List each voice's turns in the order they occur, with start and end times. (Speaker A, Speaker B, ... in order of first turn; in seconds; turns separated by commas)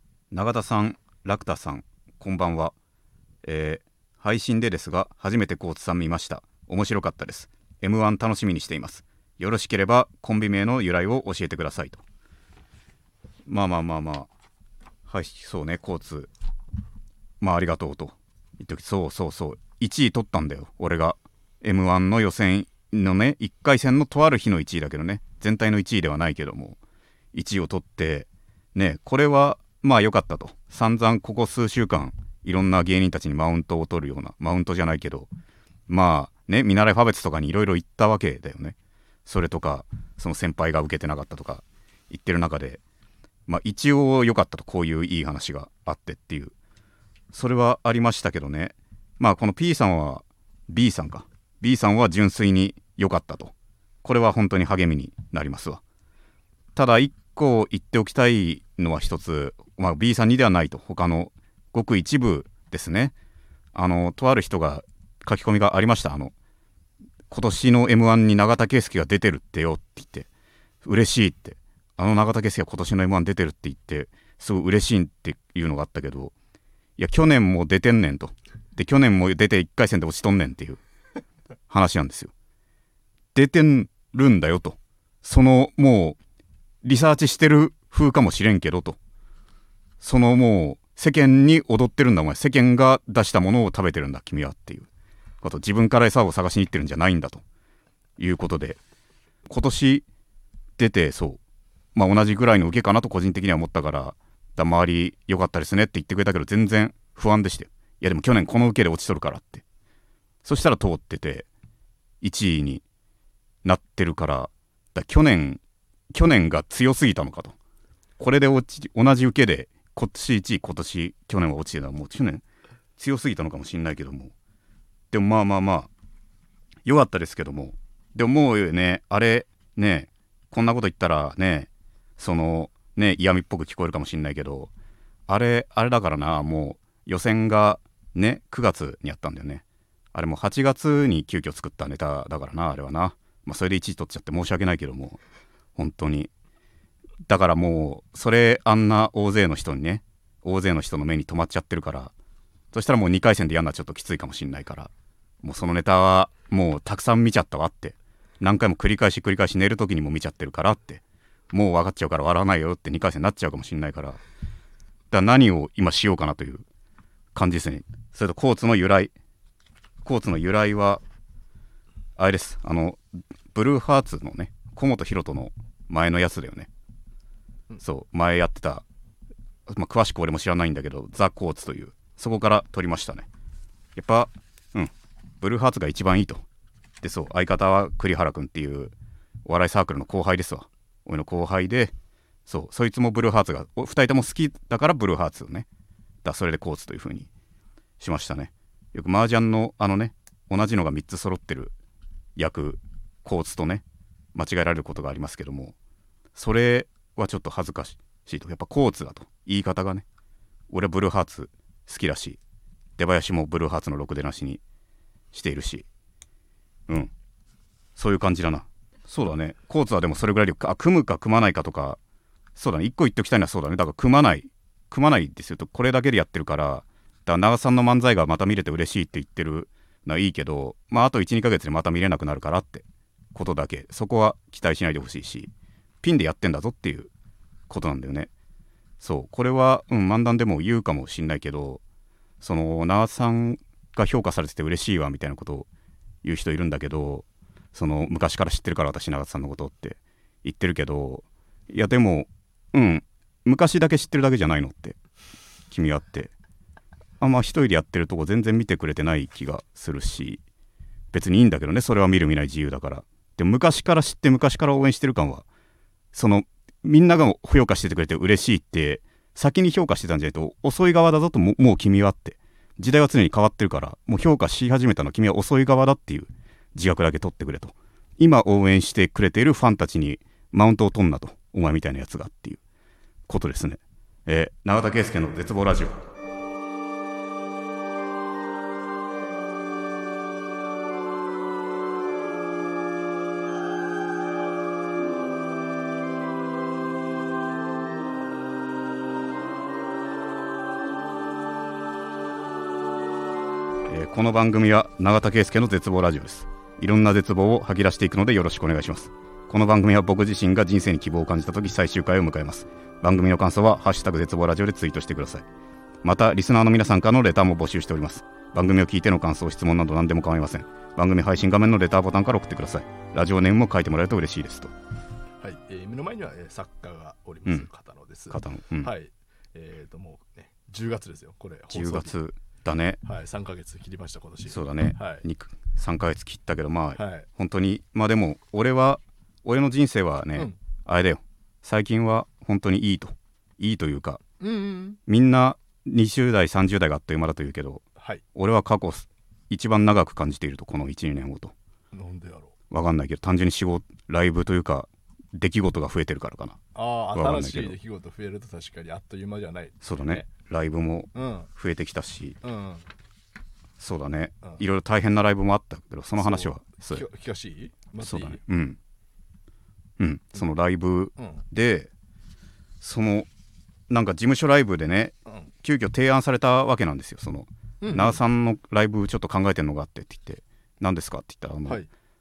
Speaker A: 0.3-2.7, Speaker A: 3.4-12.0, Speaker A: 13.5-14.3, Speaker A: 15.1-16.3, Speaker A: 17.4-26.8, Speaker A: 27.3-35.3, Speaker A: 35.9-42.8, Speaker A: 43.5-46.5, Speaker A: 47.3-53.5, Speaker A: 54.0-55.8, Speaker A: 56.8-63.1, Speaker A: 63.7-66.3, Speaker A: 67.3-70.3, Speaker A: 70.8-76.3, Speaker A: 77.0-80.8, Speaker A: 81.7-82.3, Speaker A: 83.3-86.2, Speaker A: 86.8-89.0, Speaker A: 90.0-94.9, Speaker A: 95.4-97.4, Speaker A: 98.2-98.8, Speaker A: 99.5-100.0, Speaker A: 100.8-101.4, Speaker A: 101.9-109.6, Speaker A: 110.4-111.5, Speaker A: 112.2-112.8, Speaker A: 113.6-115.6, Speaker A: 116.1-117.5, Speaker A: 118.2-122.4, Speaker A: 123.0-124.3, Speaker A: 125.1-125.9, Speaker A: 126.8-134.7, Speaker A: 135.3-145.2, Speaker A: 145.8-146.3, Speaker A: 147.3-152.1, Speaker A: 152.7-154.9, Speaker A: 155.4-164.2, Speaker A: 165.1-166.6, Speaker A: 167.3-169.1, Speaker A: 170.0-171.0, Speaker A: 172.2-173.0, Speaker A: 173.5-176.7, Speaker A: 177.8-178.8, Speaker A: 179.7-183.2, Speaker A: 183.9-186.4, Speaker A: 187.0-188.9, Speaker A: 189.4-191.9, Speaker A: 192.5-195.7, Speaker A: 196.2-197.3, Speaker A: 198.0-201.7, Speaker A: 202.3-205.7, Speaker A: 206.3-210.0, Speaker A: 210.7-212.4, Speaker A: 213.0-214.6, Speaker A: 215.3-215.8, Speaker A: 217.9-222.0, Speaker A: 222.6-235.5, Speaker A: 236.0-237.1, Speaker A: 237.7-238.3, Speaker A: 239.0-241.8, Speaker A: 242.4-245.7, Speaker A: 246.2-255.0, Speaker A: 255.7-256.3, Speaker A: 257.2-260.4, Speaker A: 261.1-265.4, Speaker A: 266.1-282.6, Speaker A: 283.3-286.1, Speaker A: 303.9-315.4, Speaker A: 316.0-324.7, Speaker B: 325.4-332.1, Speaker A: 328.3-328.9, Speaker A: 331.7-333.0, Speaker B: 333.0-335.2, Speaker A: 334.5-344.2, Speaker B: 337.0-337.3, Speaker B: 344.4-345.0, Speaker A: 345.1-351.5, Speaker B: 348.0-348.2, Speaker B: 351.9-352.5, Speaker A: 352.7-356.6, Speaker B: 356.7-360.2, Speaker A: 357.1-357.7, Speaker A: 359.8-362.4, Speaker B: 361.1-361.5, Speaker B: 362.4-362.9, Speaker A: 363.8-367.0, Speaker B: 366.2-368.4, Speaker A: 368.0-368.8, Speaker A: 370.0-371.9, Speaker B: 371.2-371.4, Speaker A: 372.8-373.3, Speaker A: 373.9-381.8, Speaker B: 377.8-378.2